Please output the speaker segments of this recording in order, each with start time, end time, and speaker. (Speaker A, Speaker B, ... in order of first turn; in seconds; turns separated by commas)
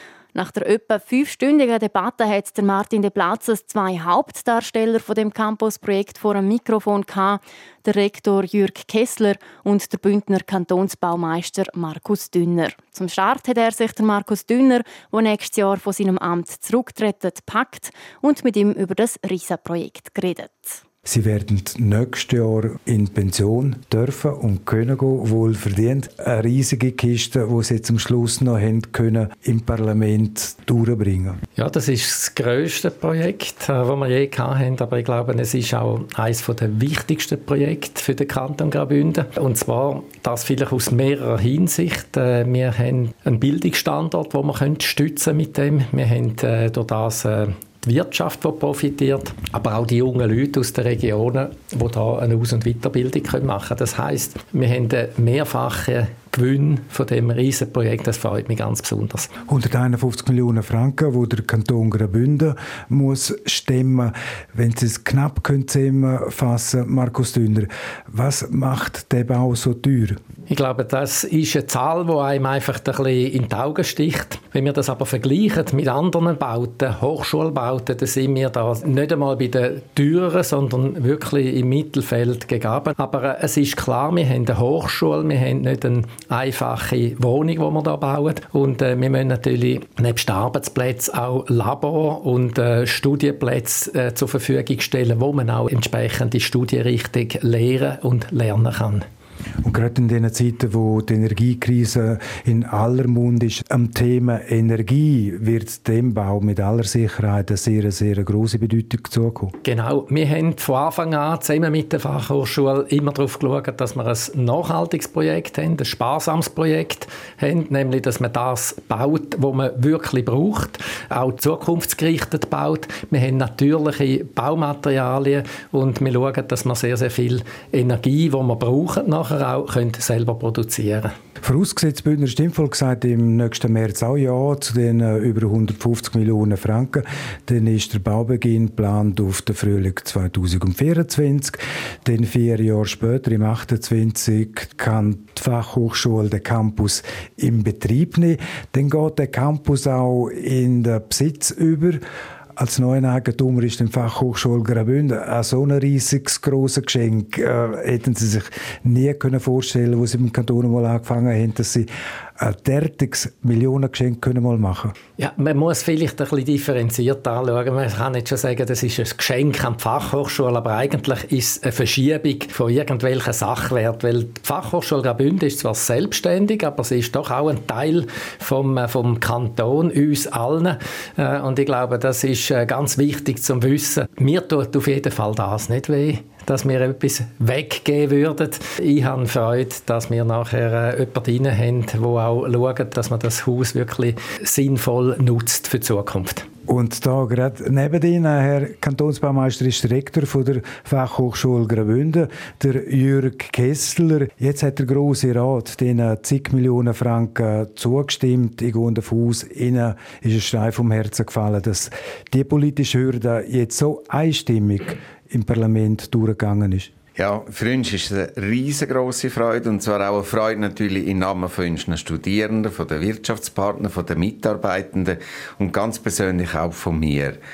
Speaker A: 0.3-20.8, Speaker B: 21.0-31.4, Speaker C: 31.6-59.3, Speaker B: 59.5-70.2, Speaker C: 70.5-99.0, Speaker B: 99.6-109.5, Speaker C: 109.6-131.1, Speaker B: 131.4-152.0, Speaker B: 152.6-164.9, Speaker C: 165.2-196.5, Speaker B: 196.7-216.9, Speaker D: 217.2-227.4